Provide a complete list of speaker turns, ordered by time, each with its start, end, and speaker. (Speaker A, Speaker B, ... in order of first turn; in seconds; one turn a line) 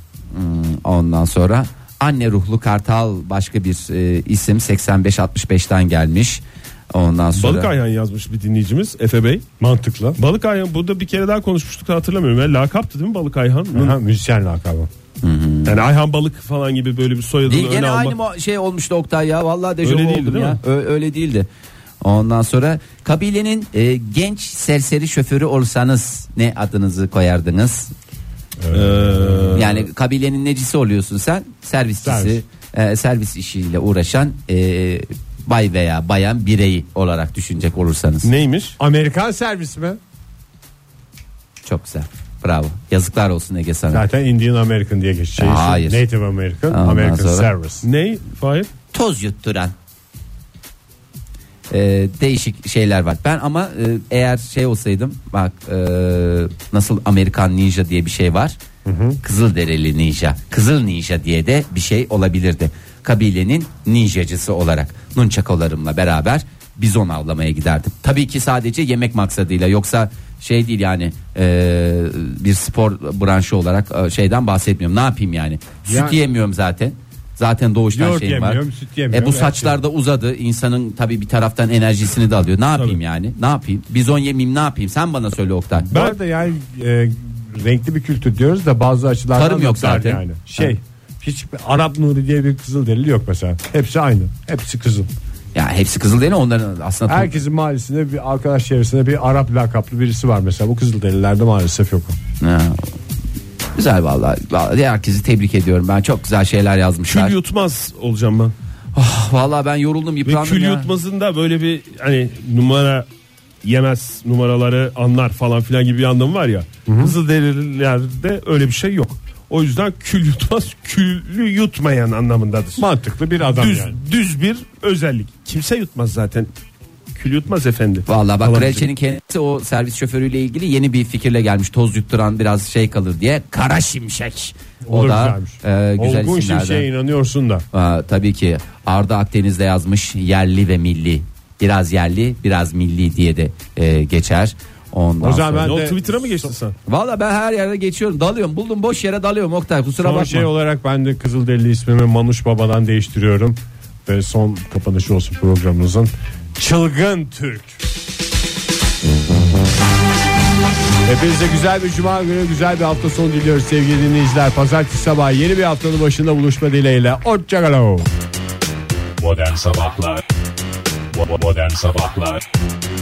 Speaker A: 0.3-7.7
Speaker B: 7.4-9.4
Speaker C: 9.6-10.2
Speaker B: 10.2-14.0
Speaker C: 13.7-14.9
Speaker A: 15.2-15.8
Speaker B: 15.7-18.2
Speaker A: 17.5-21.5
Speaker B: 19.8-20.6
Speaker A: 22.0-27.9
Speaker C: 28.6-29.6
Speaker B: 28.7-29.8
Speaker A: 29.5-38.3
Speaker C: 32.0-32.4
Speaker B: 38.2-38.8
Speaker C: 38.8-40.0
Speaker A: 41.6-44.0
Speaker C: 43.9-47.9
Speaker A: 45.4-46.0
Speaker A: 46.7-47.5
Speaker B: 47.8-48.7
Speaker A: 48.9-49.7
Speaker A: 51.7-58.6
Speaker C: 58.9-59.2
Speaker A: 59.2-85.9
Speaker C: 75.9-76.2
Speaker C: 77.9-79.8
Speaker C: 85.8-95.1
Speaker A: 89.3-90.7
Speaker A: 95.5-97.3
Speaker C: 97.1-102.2
Speaker A: 102.4-102.8
Speaker A: 103.8-107.3
Speaker B: 107.1-108.5
Speaker A: 109.0-110.9
Speaker B: 110.2-113.1
Speaker B: 113.6-122.8
Speaker C: 116.9-117.1
Speaker C: 122.8-124.0
Speaker B: 123.5-126.5
Speaker B: 127.2-128.9
Speaker A: 128.1-136.9
Speaker C: 134.8-137.7
Speaker A: 137.7-145.7
Speaker C: 145.2-146.5
Speaker B: 145.6-146.8
Speaker A: 146.9-150.5
Speaker C: 150.0-157.8
Speaker C: 161.1-168.1
Speaker D: 169.2-170.2
Speaker D: 171.1-172.4